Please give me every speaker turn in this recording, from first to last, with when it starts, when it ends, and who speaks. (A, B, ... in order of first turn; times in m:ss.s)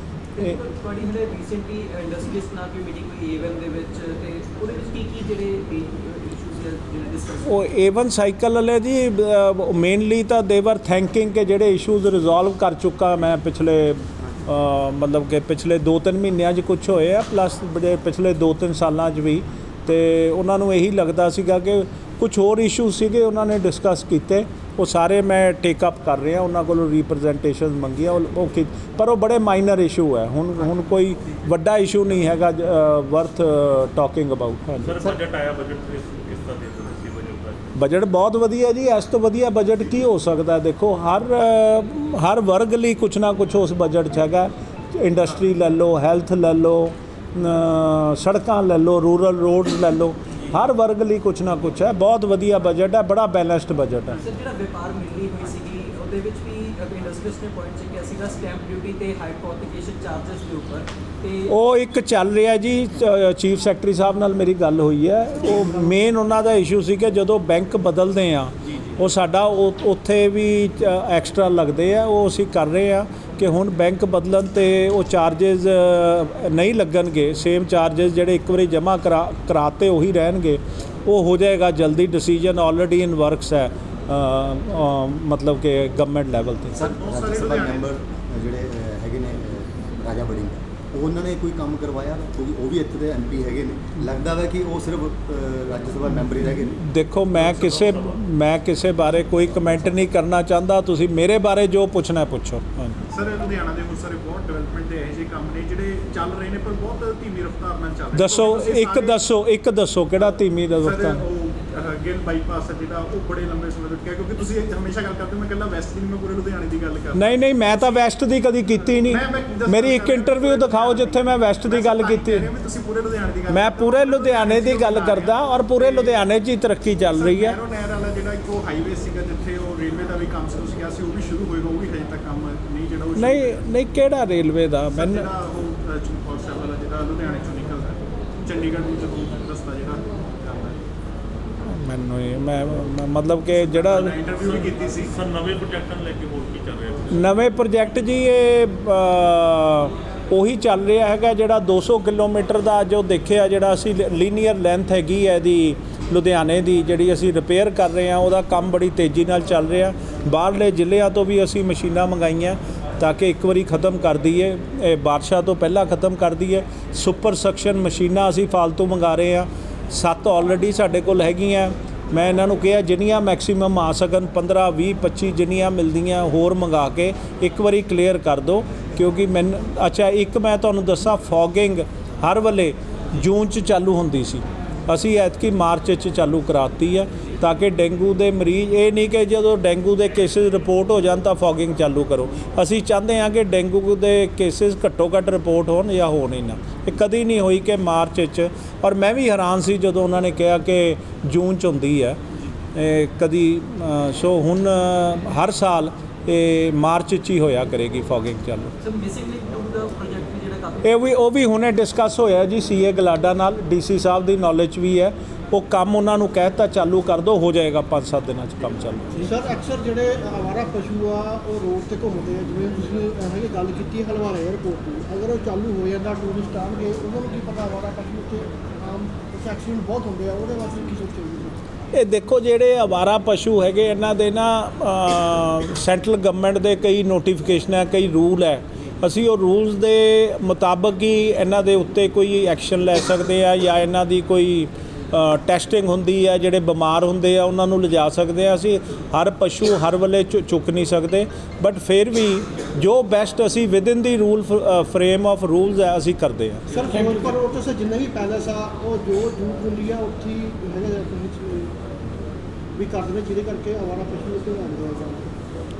0:00.4-0:07.6 A
0:07.4-0:35.1 B
0:34.9-0:37.6 C
0:37.8-0:54.2 B
0:54.1-1:01.5 A
1:01.5-1:26.9 B
1:26.8-1:36.8 D
1:26.8-1:27.9 E
1:36.6-1:43.0 B
1:37.4-1:38.0 C
1:43.1-1:49.2 E
1:48.1-1:51.2 B
1:50.8-1:57.9 E
1:57.2-2:02.5 B
1:59.0-2:06.2 E
2:03.5-2:07.6 B
2:07.1-2:13.6 E
2:13.2-2:15.3 B
2:14.9-2:20.8 E
2:21.7-2:24.1 B
2:23.7-2:25.1 E
2:24.4-2:27.2 C
2:27.1-3:22.2 B
3:22.8-3:28.7 B
3:28.8-3:31.2 A
3:30.8-3:39.1 B
3:39.2-3:51.6 F
3:51.9-4:16.7 B
4:16.7-4:17.4 A
4:16.7-4:21.7 F
4:22.8-4:25.3 F